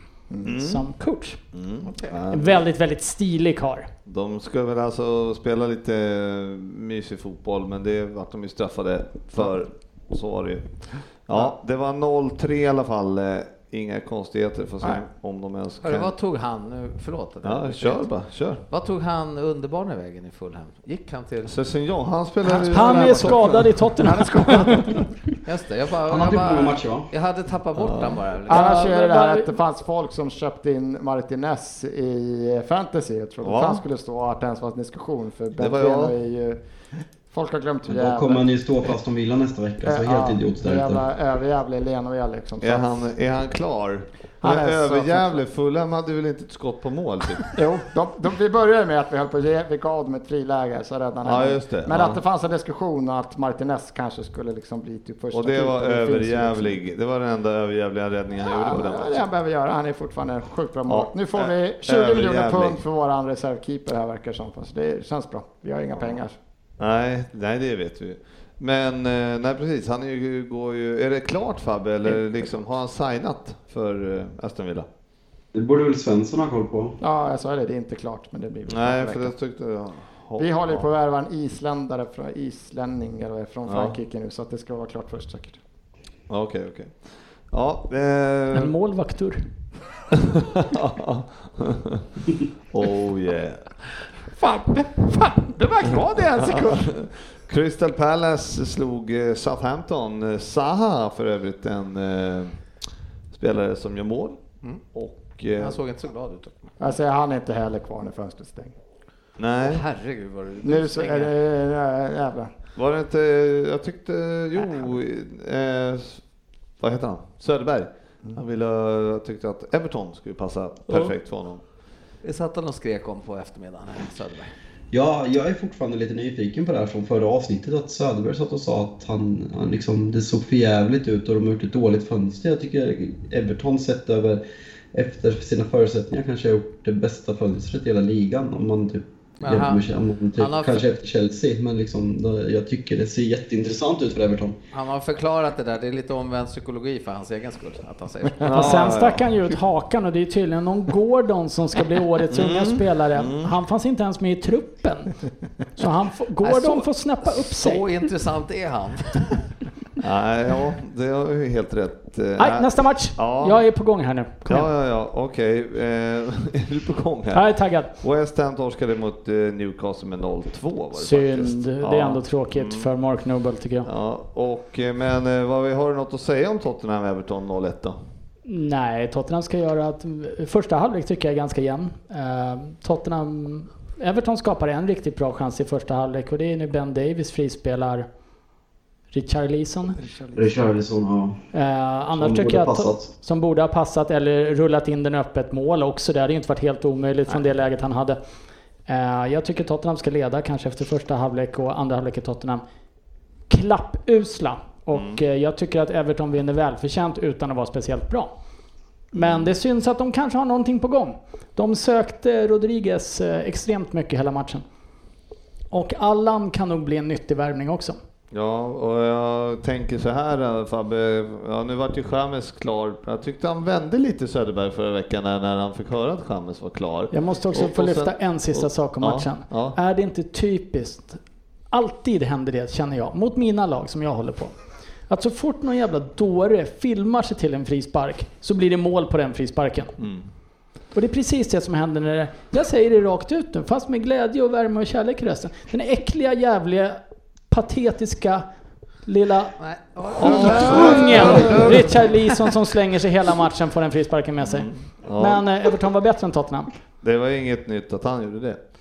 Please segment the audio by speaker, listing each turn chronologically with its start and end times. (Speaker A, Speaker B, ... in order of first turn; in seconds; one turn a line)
Speaker A: 0.4-0.9
Speaker B: 0.5-1.4
Speaker A: 1.5-2.6
Speaker C: 1.9-2.2
Speaker B: 2.3-3.9
Speaker A: 4.1-16.1
Speaker C: 15.8-18.1
Speaker A: 17.4-18.6
Speaker C: 18.7-21.5
Speaker A: 21.4-23.8
Speaker D: 22.4-25.2
Speaker B: 22.7-24.8
Speaker C: 25.4-28.9
Speaker E: 26.1-27.1
Speaker A: 27.8-28.2
Speaker D: 28.5-36.6
Speaker B: 28.5-29.5
Speaker A: 33.4-33.8
Speaker A: 35.5-36.1
Speaker D: 37.3-38.5
Speaker E: 37.9-41.0
Speaker D: 39.9-43.1
Speaker A: 42.6-47.5
Speaker D: 44.4-45.4
Speaker D: 47.5-56.8
Speaker A: 51.2-52.2
Speaker A: 55.3-59.2
Speaker D: 58.5-66.4
Speaker A: 60.9-62.8
Speaker A: 66.8-74.9
Speaker D: 72.1-72.5
Speaker E: 75.5-77.0
Speaker D: 77.0-79.3
Speaker A: 78.7-80.9
Speaker D: 80.4-85.6
Speaker A: 83.7-83.9
Speaker A: 86.3-88.8
Speaker B: 88.5-89.4
Speaker A: 90.2-92.1
Speaker A: 92.7-93.7
Speaker D: 94.3-96.9
Speaker A: 96.4-102.6
Speaker A: 103.3-104.4
Speaker A: 104.9-105.8
Speaker C: 105.6-106.8
Speaker D: 106.8-108.7
Speaker A: 109.4-109.8
Speaker C: 109.6-111.3
Speaker D: 110.6-112.5
Speaker A: 112.8-116.2
Speaker A: 116.8-121.6
Speaker C: 122.2-124.5
Speaker E: 124.9-134.4
Speaker E: 134.9-144.6
Speaker C: 139.4-139.9
Speaker C: 140.4-140.9
Speaker C: 144.7-148.9
Speaker A: 148.4-149.6
Speaker B: 148.5-155.1
Speaker A: 152.3-153.5
Speaker B: 155.8-157.9
Speaker C: 156.4-159.5
Speaker A: 160.0-163.7
Speaker B: 162.4-164.7
Speaker A: 164.5-172.9
Speaker B: 167.3-167.9
Speaker B: 170.9-173.9
Speaker A: 173.8-178.0
Speaker B: 178.4-188.1
Speaker B: 189.1-190.0
Speaker D: 190.0-190.5
Speaker E: 190.3-191.4
Speaker B: 191.5-198.2
Speaker E: 192.1-193.1
Speaker B: 198.9-202.6
Speaker B: 203.5-208.3
Speaker A: 204.9-205.2
Speaker A: 209.1-209.5
Speaker B: 209.1-214.6
Speaker B: 215.7-218.0
Speaker A: 218.3-229.8
Speaker B: 227.1-231.2
Speaker B: 231.7-234.6
Speaker B: 235.1-240.0
Speaker A: 240.0-240.3
Speaker B: 240.9-247.0
Speaker B: 247.5-248.4
Speaker B: 249.0-249.6
Speaker C: 249.6-252.2
Speaker A: 250.2-252.1
Speaker B: 250.2-256.7
Speaker A: 254.4-255.5
Speaker A: 257.0-258.6